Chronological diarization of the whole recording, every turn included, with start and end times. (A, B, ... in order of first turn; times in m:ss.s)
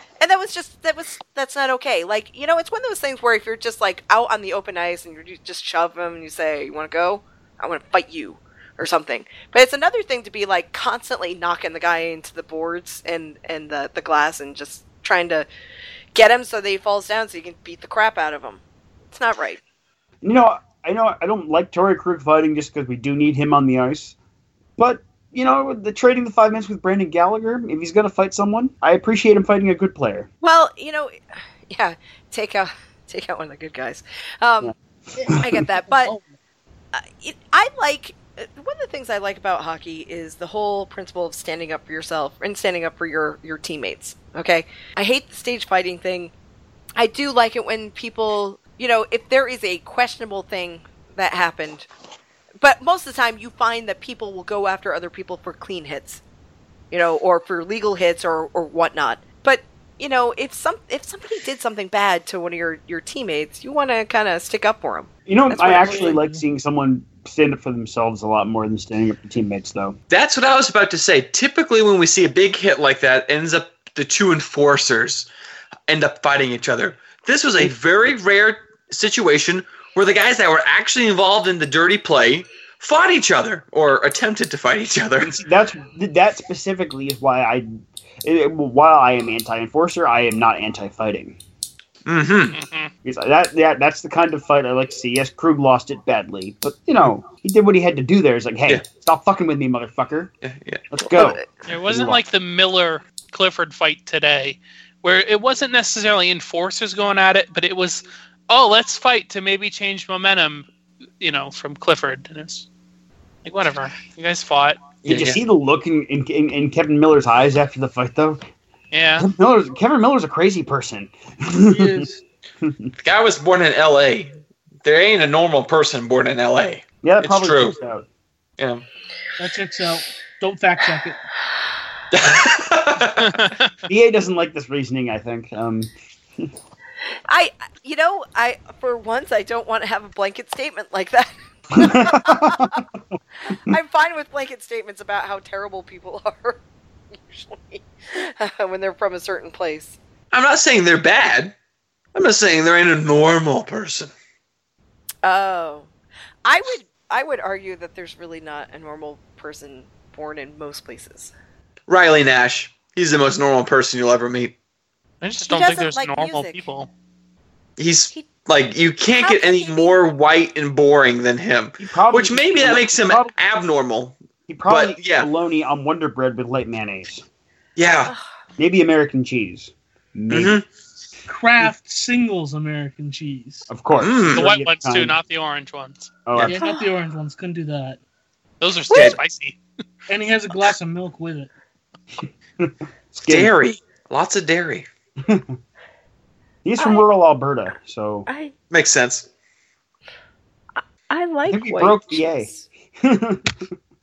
0:00.2-0:15.5 A
0:16.2-0:19.6 A
0:20.2-0:24.2 B
0:24.8-0:30.3 B
0:30.4-0:31.2 A
0:31.7-0:34.7 A
0:35.2-0:36.2 C
0:35.4-0:36.2 A
0:36.9-0:46.3 A
0:47.0-0:51.9 A
0:52.6-0:56.2 A
0:56.9-1:06.2 A
1:05.3-1:10.0 B
1:05.8-1:06.4 C
1:10.1-1:15.3 D
1:15.9-1:25.4 D
1:25.2-1:27.7 B
1:28.2-1:31.4 B
1:32.0-1:32.6 D
1:32.5-1:32.9 E
1:33.0-1:40.3 B
1:40.4-1:40.9 D
1:40.9-1:42.2 B
1:41.1-1:41.4 A
1:41.7-1:50.7 E
1:51.2-1:52.7 E
1:53.4-1:55.0 E
1:55.0-1:58.4 B
1:55.0-1:55.4 D
1:58.9-1:59.3 E
1:59.2-2:02.1 B
2:01.7-2:02.2 C
2:02.6-2:02.9 B
2:03.0-2:07.8 D
2:07.0-2:08.1 B
2:08.6-2:08.8 D
2:09.4-2:11.2 C
2:12.1-2:13.4 D
2:13.2-2:13.7 E
2:13.9-2:16.5 B
2:17.3-2:22.8 A
2:21.7-2:23.0 B
2:23.4-2:26.6 A
2:27.1-2:30.0 A
2:30.3-2:31.6 D
2:32.1-2:34.1 D
2:35.2-2:35.9 A
2:36.4-2:41.3 A
2:41.9-2:44.6 D
2:45.2-2:46.9 E
2:45.4-2:46.6 A
2:47.8-2:55.3 D
2:49.2-2:50.0 A
2:51.8-2:53.3 B
2:54.5-2:57.2 B
2:57.8-2:58.1 D
2:58.6-3:00.6 B
3:00.3-3:00.6 D
3:01.3-3:03.7 C
3:03.7-3:05.2 B
3:04.0-3:04.5 D
3:04.3-3:06.1 E
3:06.3-3:06.5 B
3:06.4-3:08.0 C
3:06.6-3:06.9 A
3:08.6-3:09.6 E
3:08.9-3:09.2 A
3:08.9-3:09.2 D
3:10.1-3:11.5 C
3:12.6-3:13.5 B
3:13.3-3:14.9 D
3:15.2-3:15.5 B
3:16.6-3:18.3 B
3:16.8-3:17.0 A
3:18.3-3:18.5 A
3:18.7-3:19.3 D
3:21.1-3:22.6 A
3:21.5-3:23.7 B